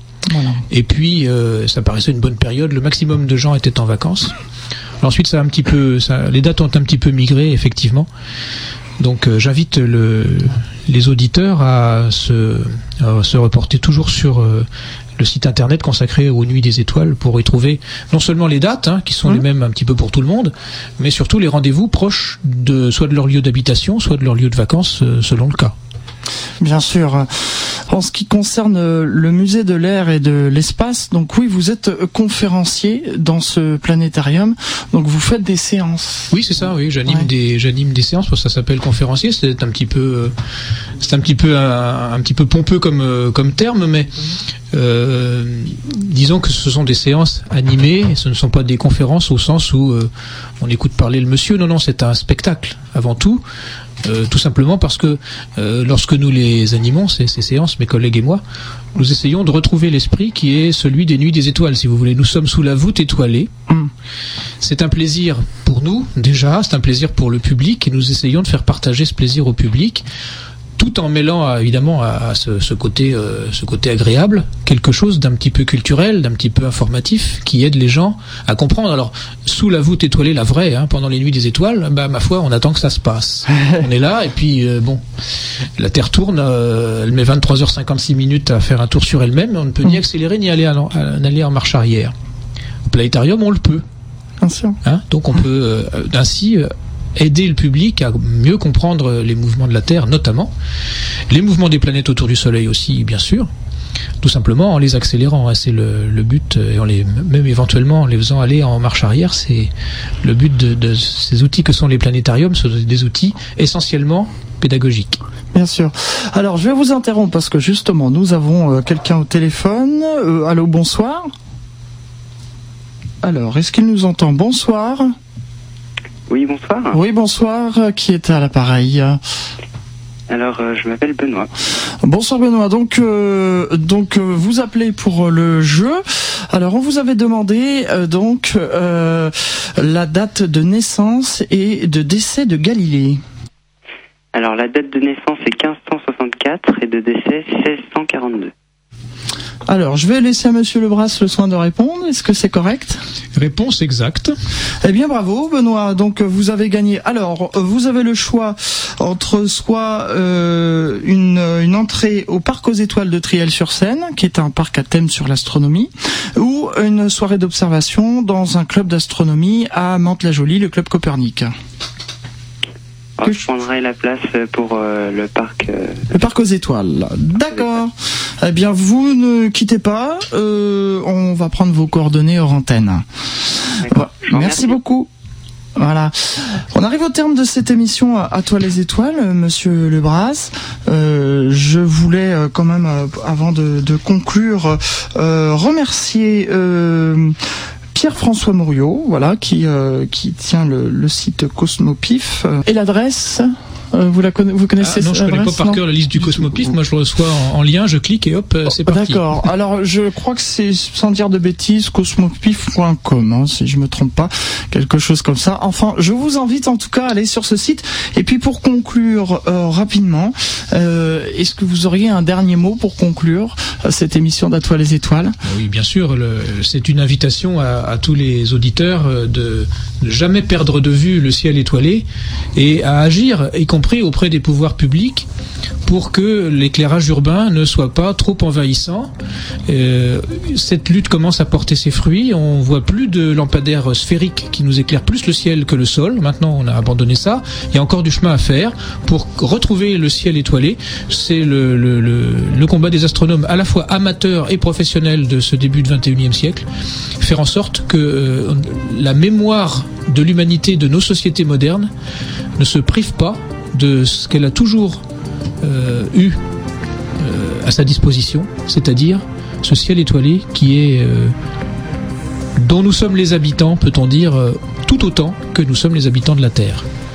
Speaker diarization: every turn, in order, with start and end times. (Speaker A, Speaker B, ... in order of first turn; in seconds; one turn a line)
Speaker A: 0.3-0.6
Speaker B: 0.7-4.3
Speaker B: 5.0-8.1
Speaker B: 9.0-25.7
Speaker A: 26.6-36.3
Speaker B: 36.3-40.3
Speaker B: 41.0-44.1
Speaker B: 44.7-53.4
Speaker B: 54.0-58.4
Speaker B: 58.9-63.5
Speaker B: 64.6-70.0
Speaker B: 70.8-85.0
Speaker B: 85.6-92.1
Speaker B: 92.9-93.8
Speaker A: 94.4-94.8
Speaker B: 94.8-100.5
Speaker B: 101.3-103.5
Speaker B: 104.2-109.7
Speaker B: 110.2-115.2
Speaker A: 115.5-121.3
Speaker A: 123.2-125.1
Speaker C: 126.3-127.0
Speaker A: 126.9-129.2
Speaker C: 130.3-131.5
Speaker A: 132.0-143.2
Speaker C: 144.3-148.5
Speaker A: 149.7-153.0
Speaker B: 153.3-154.3
Speaker A: 154.8-171.5
Speaker C: 173.2-176.1
Speaker A: 176.1-183.0
Speaker A: 183.6-185.1
Speaker C: 183.8-184.7
Speaker A: 185.8-197.4
Speaker A: 197.9-205.8
Speaker B: 204.8-209.3
Speaker A: 208.8-225.4
Speaker B: 225.4-235.3
Speaker B: 235.8-239.1
Speaker B: 239.7-256.6
Speaker B: 257.2-261.9
Speaker B: 262.6-265.0
Speaker B: 265.6-266.4
Speaker B: 267.2-271.3
Speaker B: 272.6-276.8